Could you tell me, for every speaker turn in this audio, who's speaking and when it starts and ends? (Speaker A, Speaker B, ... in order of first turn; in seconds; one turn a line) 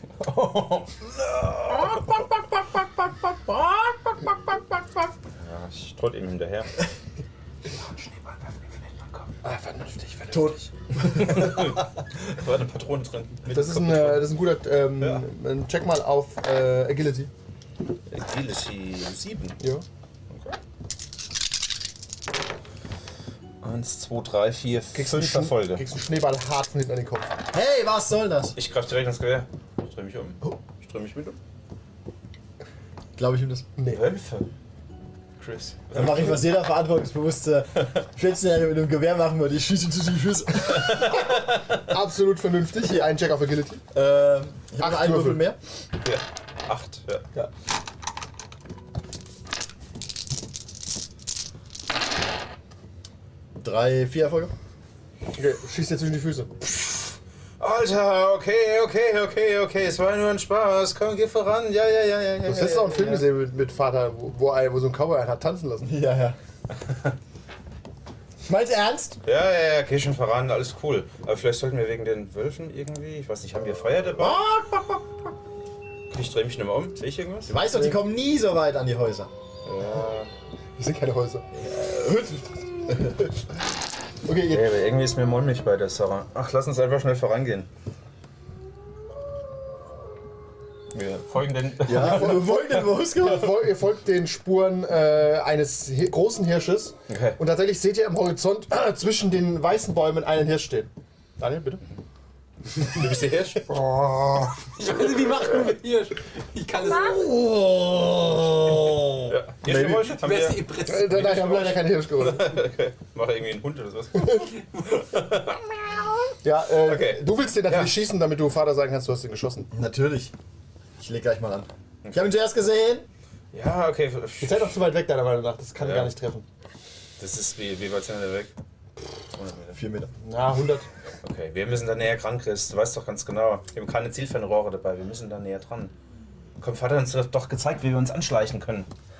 Speaker A: 0.2-4.6
Speaker A: 5.3-6.7
Speaker B: 9.4-10.7
Speaker C: 10.3-11.5
Speaker A: 10.9-14.3
Speaker B: 13.5-17.3
Speaker A: 18.1-19.6
Speaker A: 20.3-20.6
Speaker A: 23.6-25.8
Speaker B: 24.9-27.3
Speaker C: 27.5-28.6
Speaker A: 28.6-31.4
Speaker C: 33.2-33.7
Speaker B: 33.8-34.0
Speaker A: 33.9-34.5
Speaker A: 35.4-36.5
Speaker C: 35.9-41.1
Speaker A: 40.7-41.8
Speaker B: 41.8-43.8
Speaker C: 43.9-45.6
Speaker B: 44.8-45.4
Speaker A: 46.0-47.3
Speaker C: 53.6-54.5
Speaker B: 55.4-56.5
Speaker A: 56.7-63.3
Speaker B: 62.5-65.9
Speaker C: 65.8-66.4
Speaker A: 66.8-67.1
Speaker C: 68.5-69.2
Speaker A: 69.2-74.5
Speaker C: 74.2-75.1
Speaker A: 76.1-77.5
Speaker C: 77.5-79.3
Speaker B: 77.7-78.0
Speaker A: 79.7-80.3
Speaker B: 80.8-81.5
Speaker C: 81.5-83.3
Speaker C: 84.3-84.7
Speaker A: 84.5-87.7
Speaker A: 90.9-92.9
Speaker C: 91.8-93.5
Speaker B: 92.0-92.6
Speaker B: 93.1-101.8
Speaker A: 97.1-97.4
Speaker A: 102.8-103.6
Speaker D: 104.6-107.3
Speaker C: 107.1-110.2
Speaker A: 109.3-116.2
Speaker D: 110.2-111.5
Speaker B: 110.9-112.6
Speaker B: 114.2-114.5
Speaker B: 116.4-119.7
Speaker A: 116.8-117.9
Speaker C: 119.7-120.3
Speaker C: 121.0-123.1
Speaker A: 122.0-122.3
Speaker A: 123.5-124.8
Speaker B: 124.4-126.4
Speaker A: 125.8-126.1
Speaker A: 127.2-128.5
Speaker A: 129.4-129.8
Speaker C: 129.7-130.1
Speaker B: 130.2-130.9
Speaker A: 131.2-135.9
Speaker A: 136.6-138.9